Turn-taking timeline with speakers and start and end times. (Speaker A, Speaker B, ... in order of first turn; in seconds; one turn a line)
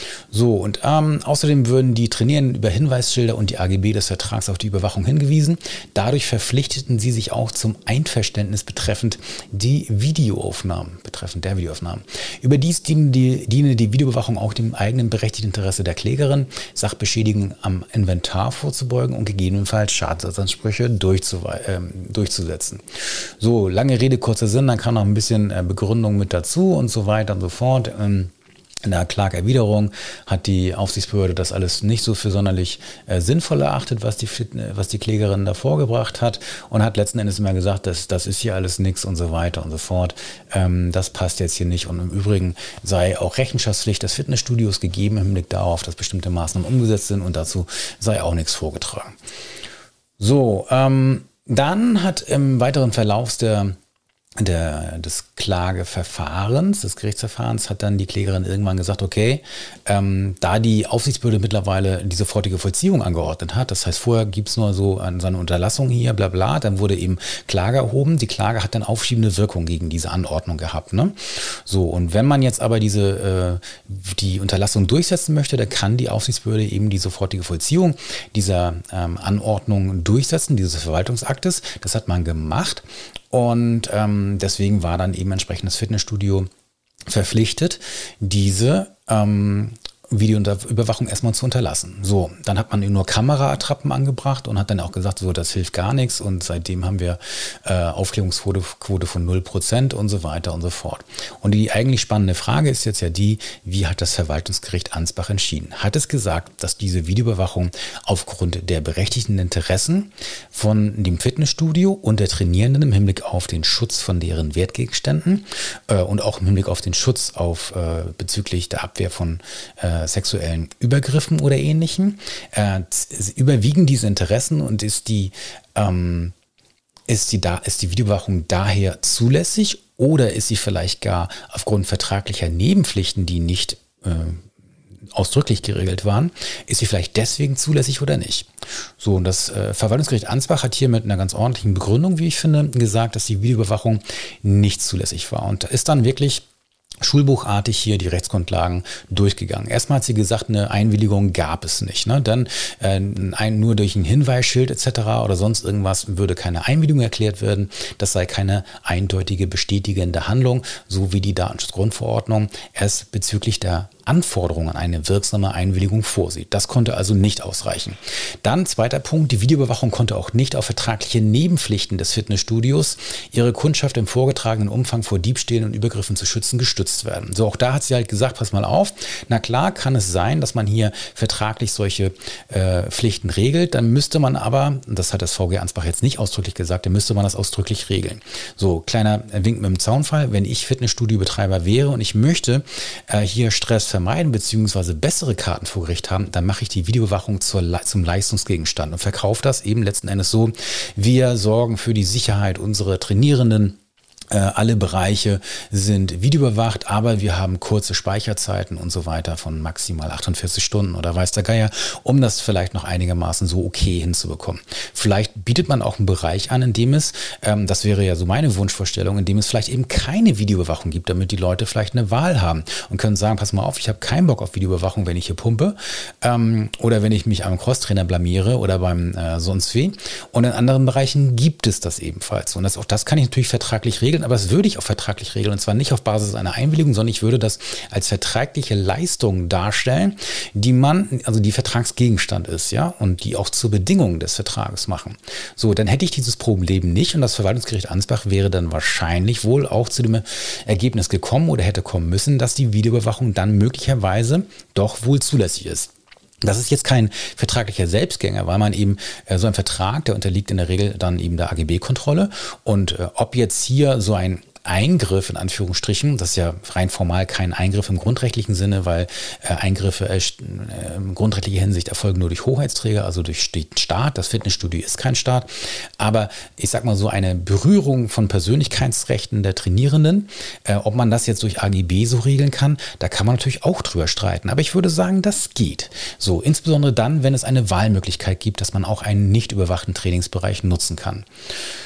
Speaker A: 0.3-22.8
Speaker A: 23.4-28.3
Speaker A: 28.8-49.1
Speaker A: 50.2-53.8
Speaker A: 54.4-86.5
Speaker A: 87.1-126.3
Speaker A: 127.1-134.4
Speaker A: 135.2-138.5
Speaker A: 139.0-146.4
Speaker A: 147.0-203.8
Speaker A: 204.3-255.9
Speaker A: 256.4-291.3